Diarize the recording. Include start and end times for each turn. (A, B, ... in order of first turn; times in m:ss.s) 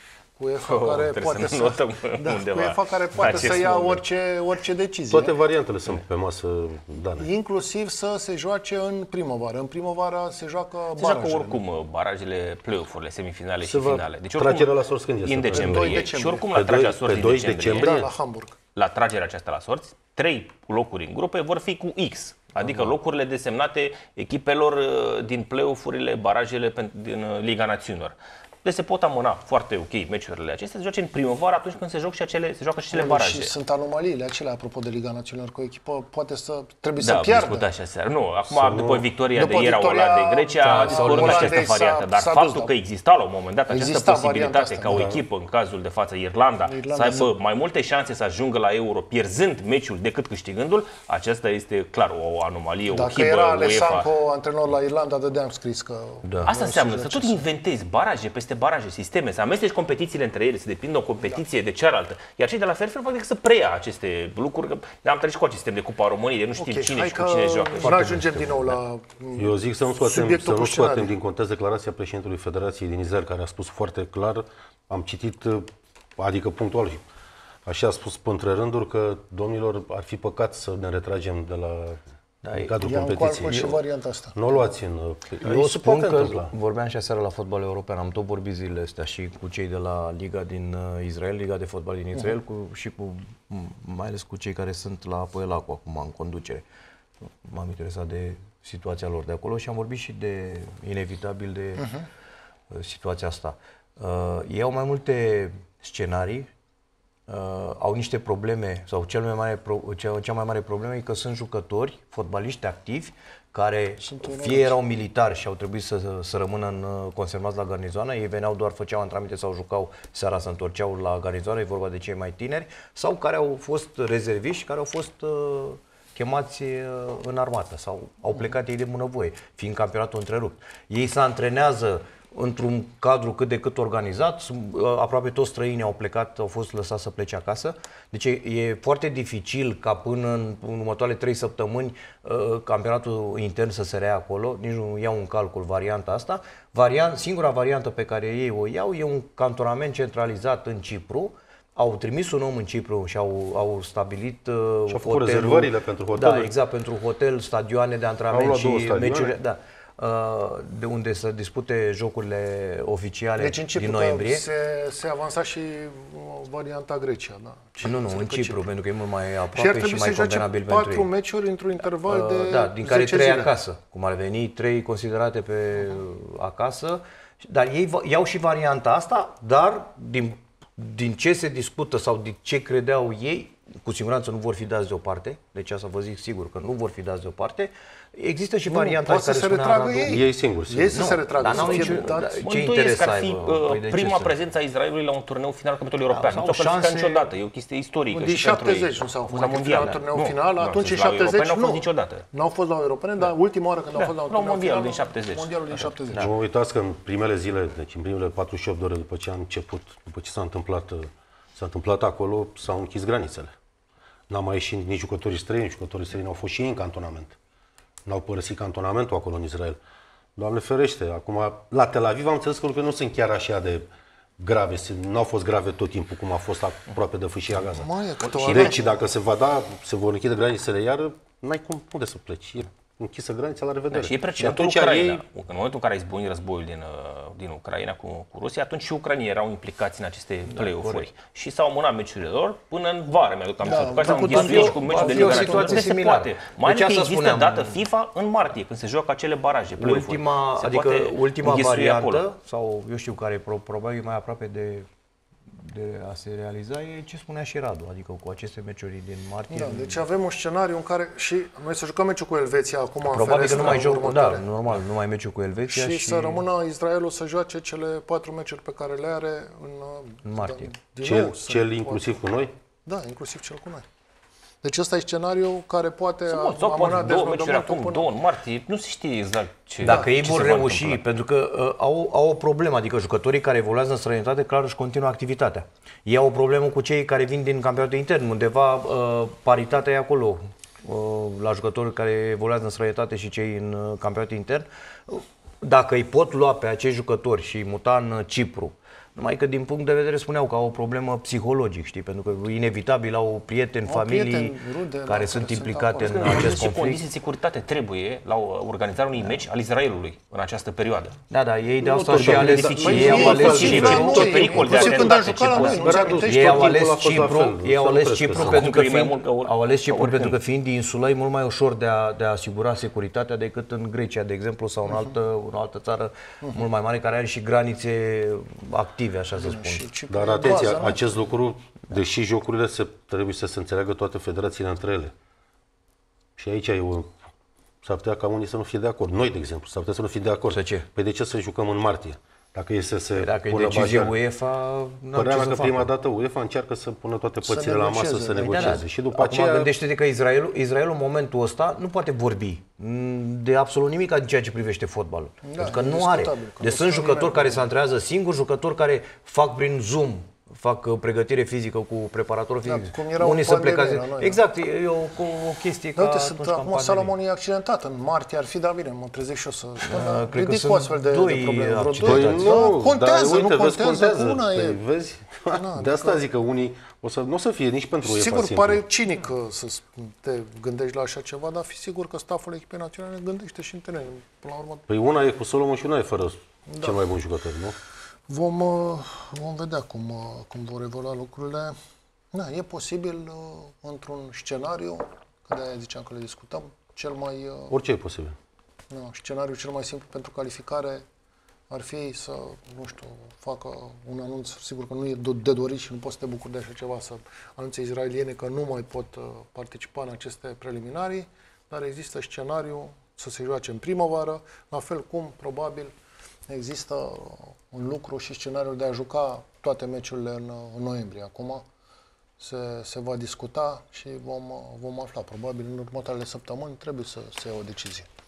0:00.4-0:05.4 A
0:00.6-0:04.0 B
0:05.1-0:07.3 C
0:07.2-0:11.6 A
0:11.0-0:18.1 B
0:13.6-0:18.0 C
0:15.5-0:16.5 A
0:17.8-0:18.6 A
0:18.8-0:33.5 B
0:32.9-0:37.7 A
0:37.0-0:54.1 B
0:38.5-0:39.1 C
0:39.3-0:42.7 A
0:40.6-0:41.6 D
0:43.7-0:45.2 A
0:46.6-0:47.3 A
0:52.9-0:57.4 A
0:56.2-0:56.5 D
0:56.4-1:08.3 B
1:06.6-1:11.1 A
1:07.8-1:08.8 D
1:09.4-1:17.0 C
1:17.7-1:22.0 C
1:22.4-1:23.8 D
1:22.5-1:23.8 C
1:22.8-1:24.7 A
1:24.4-1:26.5 C
1:25.4-1:36.6 D
1:37.4-1:42.0 D
1:41.8-1:42.1 A
1:42.7-1:46.5 D
1:47.3-2:44.5 D
1:54.0-1:54.8 A
2:34.9-2:36.5 C
2:38.3-2:39.4 C
2:43.4-2:48.7 A
2:47.8-2:51.1 D
2:49.5-2:53.5 A
2:52.1-3:10.2 D
3:08.7-3:12.4 A
3:10.1-3:11.7 C
3:10.9-3:14.4 D
3:11.8-3:22.3 B
3:16.1-3:17.3 D
3:18.1-3:26.3 A
3:23.9-3:26.0 B
3:26.2-3:33.5 C
3:34.3-3:37.4 C
3:38.1-3:39.8 C
3:40.4-3:43.9 C
3:44.4-3:47.9 C
3:47.7-3:49.1 A
3:48.2-3:48.8 B
3:48.4-3:55.2 C
3:53.9-4:12.2 B
4:00.5-4:01.1 D
4:03.6-4:05.9 A
4:04.0-4:07.8 D
4:09.8-4:14.9 D
4:15.5-4:20.0 D
4:19.5-4:24.5 A
4:23.1-4:26.4 D
4:25.7-4:33.9 A
4:30.2-4:30.7 D
4:31.0-4:32.5 C
4:34.6-4:38.1 A
4:36.3-4:41.0 B
4:39.8-5:07.0 D
4:39.8-4:40.1 A
5:03.8-5:06.6 A
5:06.0-5:11.2 B
5:09.2-5:09.4 D
5:11.3-5:15.0 D
5:11.8-5:18.7 C
5:12.2-5:16.2 B
5:12.8-5:16.9 A
5:16.2-5:29.9 D
5:18.3-5:20.4 B
5:29.3-5:31.0 A
5:30.1-5:35.1 C
5:30.4-5:30.8 D
5:36.4-5:37.1 C
5:37.8-5:44.2 C
5:40.5-5:40.8 D
5:43.2-5:45.9 D
5:45.2-5:49.7 C
5:47.4-5:48.8 A
5:48.4-6:07.2 D
5:55.4-5:57.6 A
6:02.6-6:04.4 A
6:06.0-6:14.8 A
6:09.9-6:12.6 D
6:12.0-6:18.8 C
6:15.5-6:16.2 A
6:18.0-6:24.9 A
6:24.9-6:27.8 C
6:26.7-6:27.0 A
6:28.3-6:31.8 A
6:32.3-6:37.7 A
6:37.7-6:38.4 C
6:38.9-6:41.0 A
6:41.7-6:55.9 A
6:56.5-7:01.6 A
7:02.4-7:08.1 A